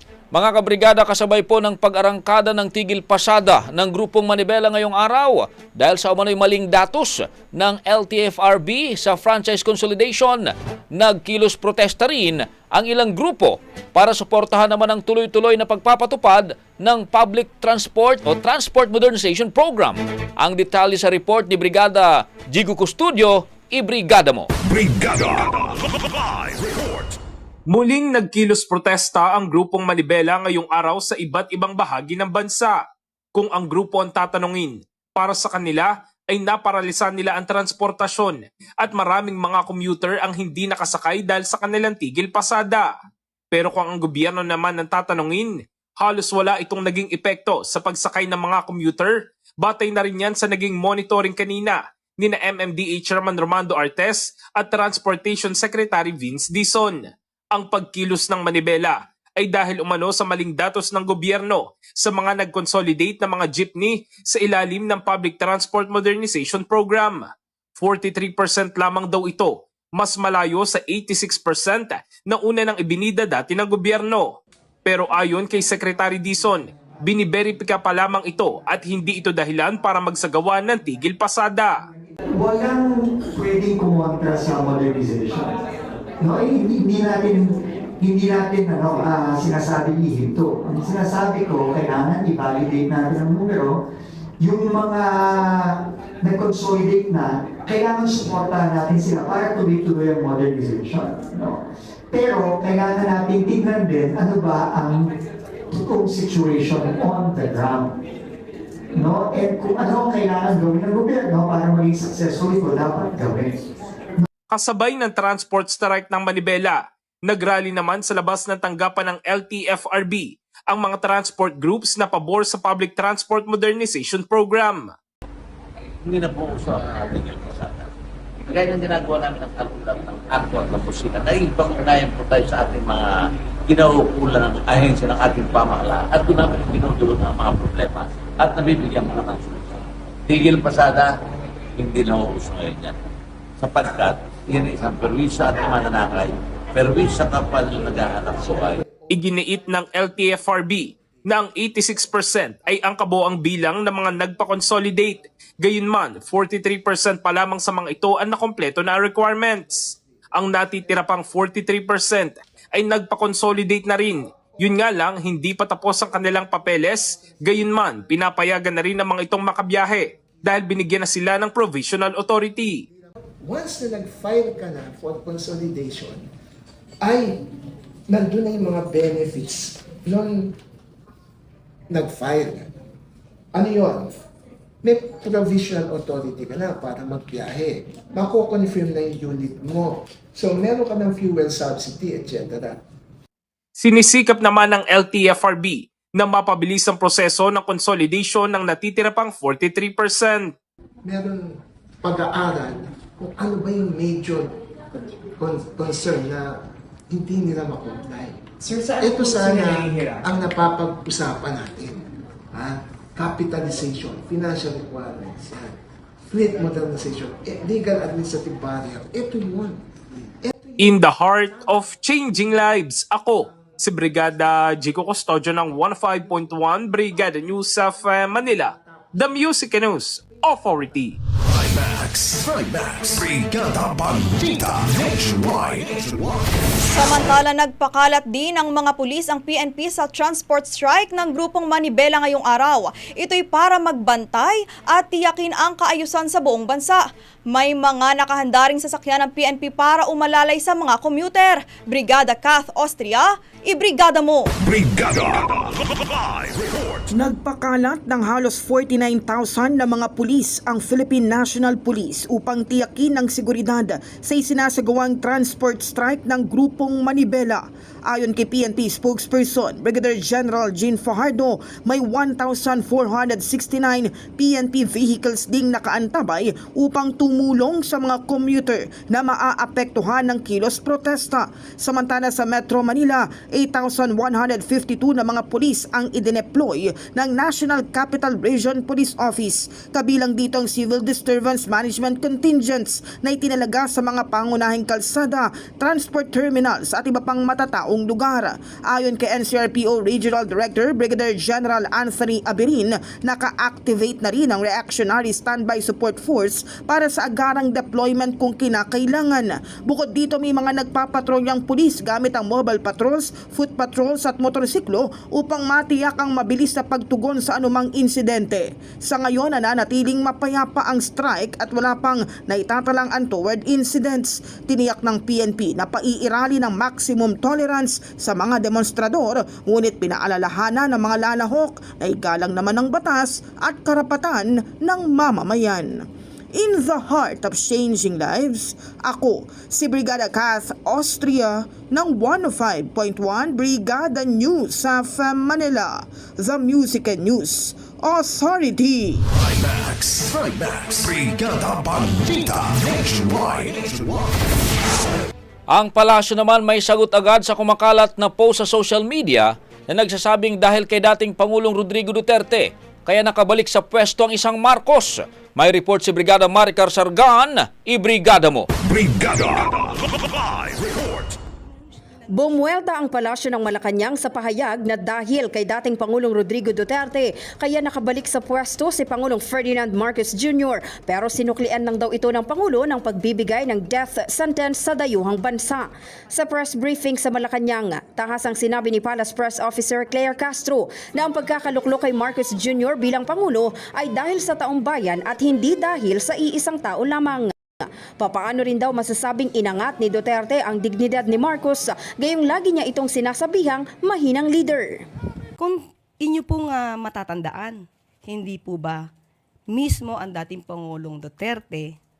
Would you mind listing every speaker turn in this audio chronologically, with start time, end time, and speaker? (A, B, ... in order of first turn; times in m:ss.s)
0:00.3-0:24.5 A
0:24.6-0:25.7 B
0:26.2-0:27.1 B
0:27.7-0:32.8 C
0:33.3-0:42.9 C
0:43.5-1:07.2 C
1:07.8-1:14.3 C
1:14.8-1:21.8 C
1:22.3-1:25.6 D
1:26.2-1:33.8 D
1:34.4-1:41.6 D
1:42.1-1:45.0 D
1:45.7-1:47.9 D
1:49.0-1:53.6 D
1:54.5-2:04.9 C
2:06.0-2:07.9 E
2:08.5-2:13.2 E
2:13.7-2:21.1 E
2:21.8-2:22.9 E
2:23.6-2:28.8 E
2:29.1-2:52.8 C
2:53.4-2:56.3 F
2:57.0-2:57.4 F
2:58.1-3:00.5 F
3:01.9-3:02.7 F
3:03.5-3:04.1 F
3:04.8-3:12.8 F
3:13.8-3:20.5 C
3:21.0-3:24.5 F
3:25.4-3:26.6 F
3:27.1-3:35.8 F
3:36.3-3:39.8 F
3:40.4-3:41.1 F
3:40.8-3:51.2 C
3:51.4-3:56.4 B
3:56.8-4:07.0 G
4:07.5-4:14.5 G
4:14.6-4:15.7 B
4:17.1-5:49.2 H
5:49.4-5:54.3 B
5:55.7-6:08.7 A
6:08.8-6:11.3 B
6:12.3-6:45.0 I
6:45.6-6:49.1 J
6:49.7-6:52.0 J